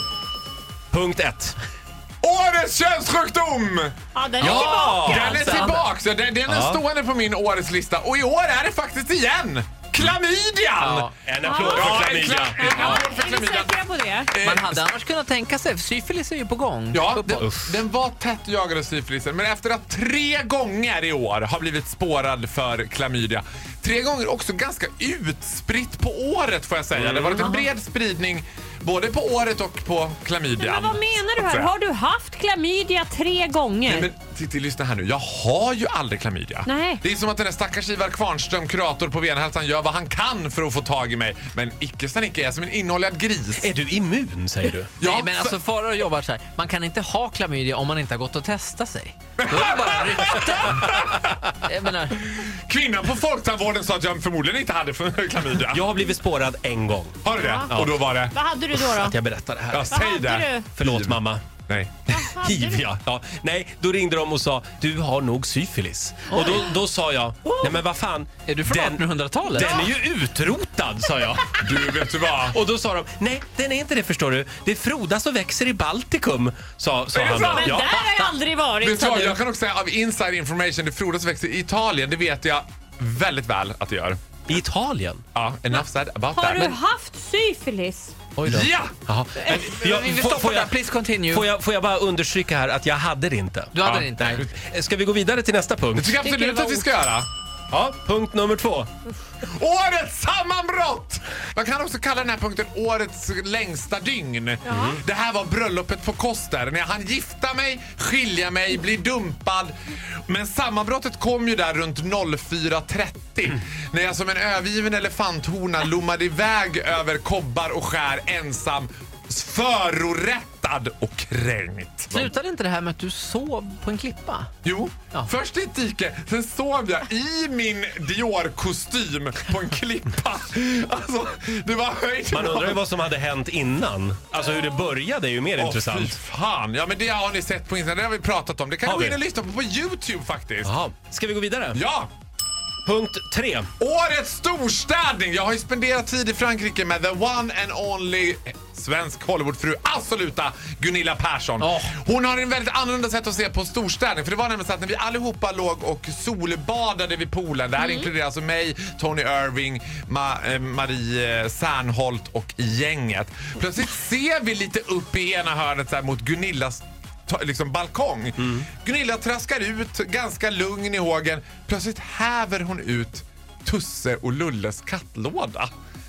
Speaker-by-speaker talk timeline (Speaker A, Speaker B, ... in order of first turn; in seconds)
Speaker A: 0.9-1.6, 4.4-5.7, 6.5-6.8, 11.2-12.8, 17.4-17.7, 26.9-27.5, 43.6-44.9, 55.7-57.1, 57.7-57.9, 58.7-60.0, 60.7-61.4, 62.3-77.9, 84.5-85.2, 88.4-90.7, 91.3-96.2, 97.7-98.9, 104.7-105.0, 132.3-136.2, 138.8-139.2, 140.6-141.8, 142.8-143.7, 168.4-168.7
Speaker B: 2.2-14.9, 16.9-31.7, 33.9-43.7, 45.0-45.6, 49.4-51.5, 52.3-55.8, 57.2-58.4, 59.7-62.3, 71.6-72.6, 77.1-78.0, 78.8-84.2, 85.3-86.8, 88.5-88.9, 93.8-94.5, 95.9-97.3, 99.4-109.7, 110.3-122.3, 124.6-132.8, 135.6-140.7, 141.7-142.1, 143.8-175.7
Speaker C: 4.1-5.8, 11.4-14.3, 27.4-27.6, 30.6-34.1, 36.6-37.0, 57.4-59.2, 59.9-60.7, 62.1-62.8, 77.5-79.4, 86.3-88.1, 96.2-96.9
Speaker D: 10.8-11.1, 12.7-13.1, 14.4-17.4, 45.0-52.2, 66.3-66.6, 68.5-69.9, 89.5-91.5, 93.7-94.4, 122.1-124.5, 151.6-151.9